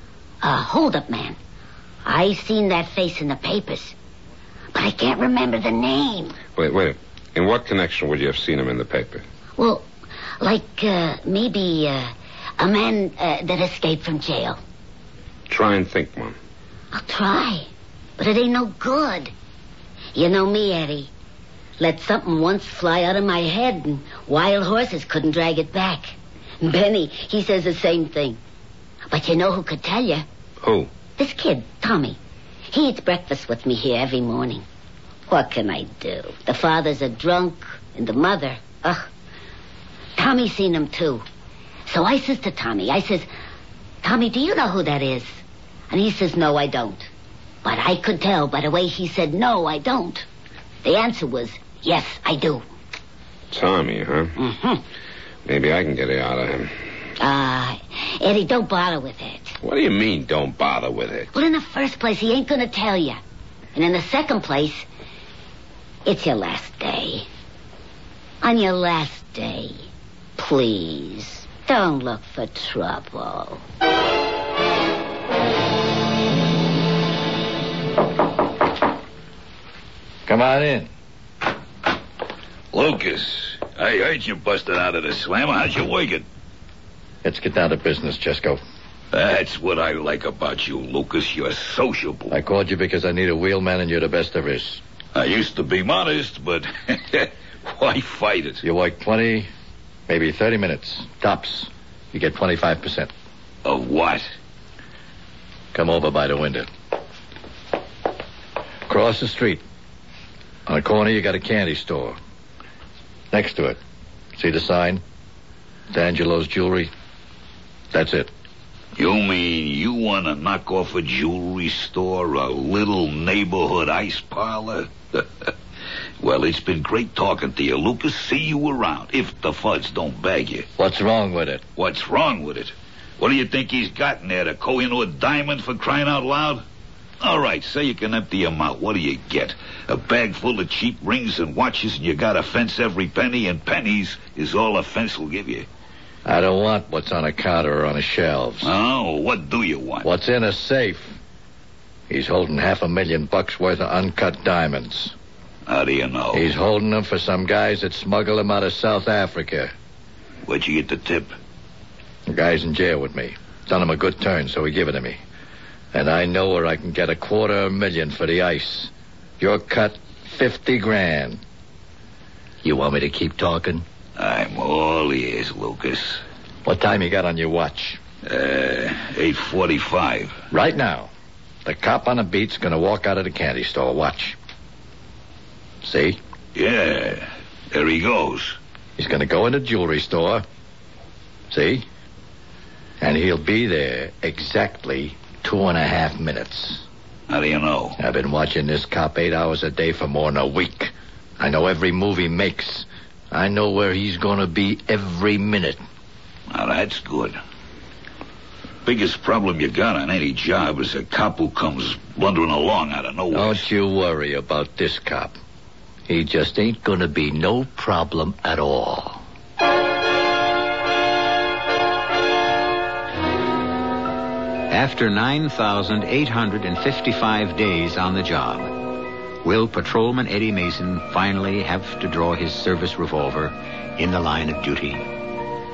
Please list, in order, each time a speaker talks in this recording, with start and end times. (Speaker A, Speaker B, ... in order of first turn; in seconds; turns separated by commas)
Speaker A: 0.4-1.4, Speaker A: 2.0-4.0, Speaker A: 4.7-6.4, Speaker B: 6.6-9.2, Speaker A: 9.6-9.9, Speaker A: 10.4-14.6, Speaker B: 15.5-16.4, Speaker A: 16.9-19.3, Speaker A: 20.1-21.1, Speaker A: 21.8-28.4, Speaker A: 29.1-30.2, Speaker B: 30.6-30.9, Speaker A: 31.2-32.2, Speaker A: 32.7-34.6, Speaker A: 35.3-39.1, Speaker A: 40.2-41.2, Speaker A: 41.9-43.3, Speaker A: 44.0-47.1, Speaker A: 47.6-50.3, Speaker A: 50.8-52.6, Speaker B: 53.5-54.3, Speaker A: 54.4-54.8, Speaker B: 55.5-56.7, Speaker A: 57.2-59.6, Speaker B: 59.6-61.3, Speaker A: 61.3-63.2, Speaker A: 63.8-64.9, Speaker A: 66.1-67.3, Speaker A: 68.4-69.8, Speaker A: 70.4-73.6, Speaker C: 80.3-80.9, Speaker D: 82.7-86.2, Speaker C: 87.2-88.6, Speaker D: 89.1-92.3, Speaker C: 92.3-94.8, Speaker D: 95.2-98.6, Speaker C: 98.6-99.5, Speaker C: 100.1-103.1, Speaker D: 103.7-104.3, Speaker C: 105.7-106.7, Speaker C: 108.9-109.6, Speaker C: 110.7-112.2, Speaker C: 113.3-113.8, Speaker C: 114.4-115.0, Speaker C: 115.9-116.9, Speaker C: 117.9-118.3, Speaker D: 119.0-125.5, Speaker D: 126.2-130.7, Speaker C: 130.8-131.6, Speaker D: 131.8-136.6, Speaker D: 137.2-145.7, Speaker C: 146.2-148.7, Speaker D: 148.6-150.1, Speaker C: 150.0-151.2, Speaker C: 152.1-155.2, Speaker D: 155.7-156.5, Speaker C: 156.3-159.7, Speaker D: 160.5-161.3, Speaker C: 162.3-165.2, Speaker C: 165.9-171.4, Speaker C: 172.6-173.9, Speaker D: 174.2-176.2, Speaker C: 176.7-178.0, Speaker D: 178.3-180.4, Speaker C: 180.5-181.1, Speaker C: 181.6-184.4, Speaker C: 185.8-186.2, Speaker D: 186.6-188.6, Speaker C: 189.0-190.4, Speaker C: 191.5-191.8, Speaker C: 193.0-196.8, Speaker D: 197.3-198.0, Speaker C: 198.0-205.8, Speaker D: 206.5-207.4, Speaker D: 208.8-213.7, Speaker C: 213.3-215.4, Speaker C: 216.1-219.2, Speaker E: 224.7-228.8, Speaker E: 229.4-235.1